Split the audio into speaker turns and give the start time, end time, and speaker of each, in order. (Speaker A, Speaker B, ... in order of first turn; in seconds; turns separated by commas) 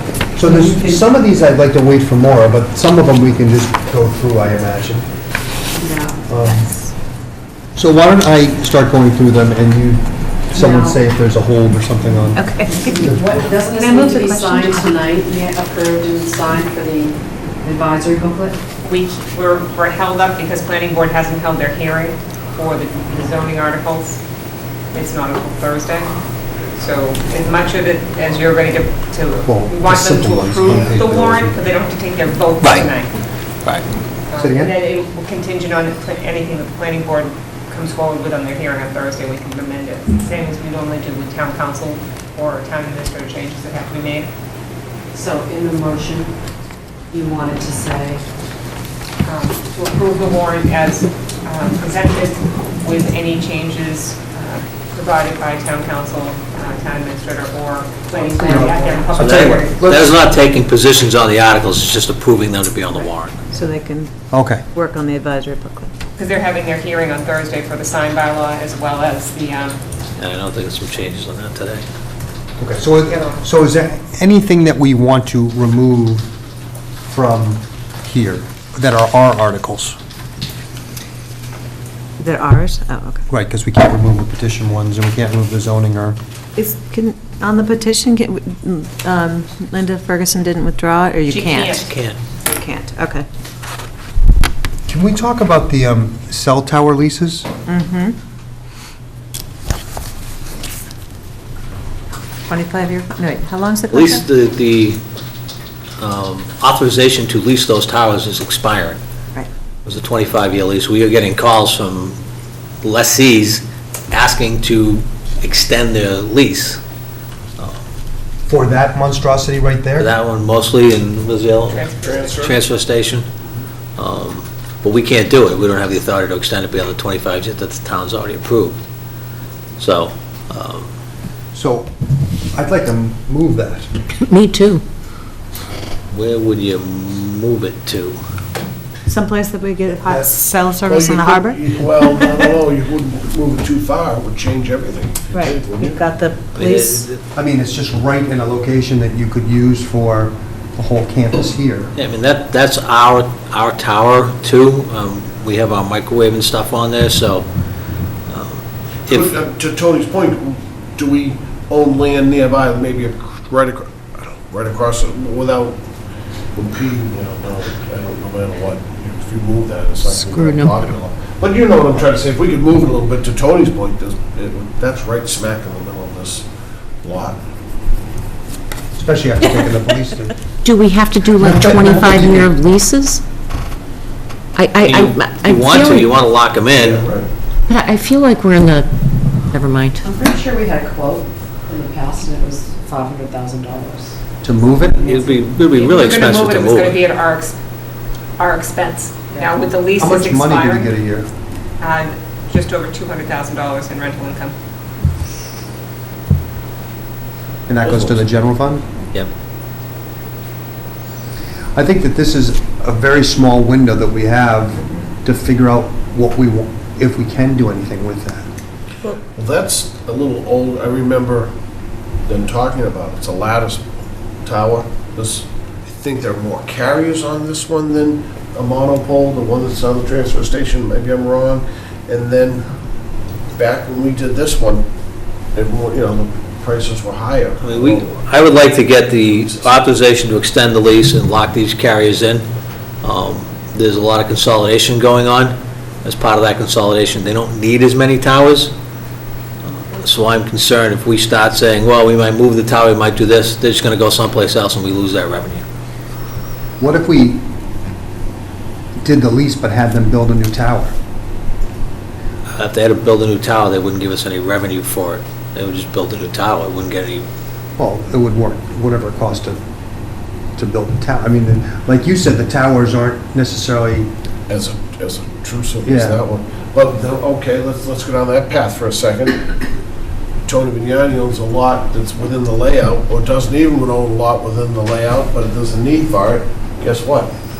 Speaker A: 0.3-5.1, Speaker B: 0.5-0.9, Speaker C: 5.8-6.2, Speaker A: 6.3-6.7, Speaker A: 7.8-13.3, Speaker C: 10.6-11.0, Speaker B: 12.3-14.9, Speaker C: 12.7-18.6, Speaker D: 18.8-24.2, Speaker D: 24.9-33.1, Speaker A: 29.4-31.6, Speaker E: 32.6-32.9, Speaker D: 34.3-44.3, Speaker A: 34.4-34.8, Speaker C: 45.1-46.3, Speaker C: 47.1-48.2, Speaker D: 49.2-59.8, Speaker C: 58.1-58.8, Speaker A: 58.4-60.2, Speaker E: 59.2-63.4, Speaker B: 63.5-64.1, Speaker A: 64.3-64.6, Speaker B: 64.7-65.9, Speaker D: 66.2-69.8, Speaker E: 70.2-71.8, Speaker A: 72.6-76.3, Speaker D: 73.1-73.4, Speaker A: 77.1-80.0, Speaker B: 82.2-83.2, Speaker A: 83.3-86.2, Speaker B: 86.5-91.9, Speaker D: 91.3-91.9, Speaker E: 91.8-92.2, Speaker B: 92.4-93.2, Speaker A: 94.9-97.5, Speaker B: 97.7-98.1, Speaker B: 102.5-104.2, Speaker E: 103.9-105.0, Speaker E: 106.0-109.0, Speaker E: 109.8-112.2, Speaker E: 112.8-116.8, Speaker A: 118.5-120.1, Speaker E: 120.0-121.9, Speaker D: 121.7-122.1, Speaker F: 122.0-122.6, Speaker E: 122.4-123.2, Speaker E: 124.0-128.8, Speaker E: 129.8-130.9, Speaker A: 131.5-131.9, Speaker A: 132.5-133.9, Speaker G: 134.2-134.8, Speaker E: 136.1-138.2, Speaker B: 139.1-142.5, Speaker A: 140.0-140.4, Speaker F: 140.8-146.0, Speaker B: 145.3-147.1, Speaker E: 146.5-147.2, Speaker A: 147.3-151.9, Speaker E: 151.9-157.5, Speaker E: 158.3-159.3, Speaker F: 159.1-165.8, Speaker F: 166.5-176.5, Speaker G: 170.1-170.8, Speaker F: 177.0-177.4, Speaker A: 178.9-180.4, Speaker G: 180.6-183.2, Speaker A: 181.4-182.5, Speaker G: 184.5-186.2, Speaker E: 184.8-187.1, Speaker F: 186.7-187.3, Speaker G: 187.7-188.9, Speaker G: 189.5-190.0, Speaker C: 190.0-194.2, Speaker A: 194.4-195.0, Speaker E: 195.0-197.0, Speaker D: 195.7-197.6, Speaker D: 198.4-200.9, Speaker A: 200.0-201.3, Speaker D: 201.8-204.5, Speaker A: 207.7-208.8, Speaker F: 207.8-208.2, Speaker A: 211.7-218.5, Speaker F: 219.3-221.5, Speaker F: 222.2-223.9, Speaker F: 224.4-232.7, Speaker F: 233.5-234.8, Speaker F: 235.5-238.2, Speaker E: 237.6-242.5, Speaker F: 239.1-239.7, Speaker E: 243.0-248.7, Speaker E: 249.6-255.6, Speaker A: 256.8-257.4, Speaker A: 259.0-260.9, Speaker E: 262.5-267.3, Speaker A: 267.8-269.6, Speaker A: 270.6-274.1, Speaker F: 274.5-279.5, Speaker A: 275.8-276.2, Speaker F: 280.4-287.3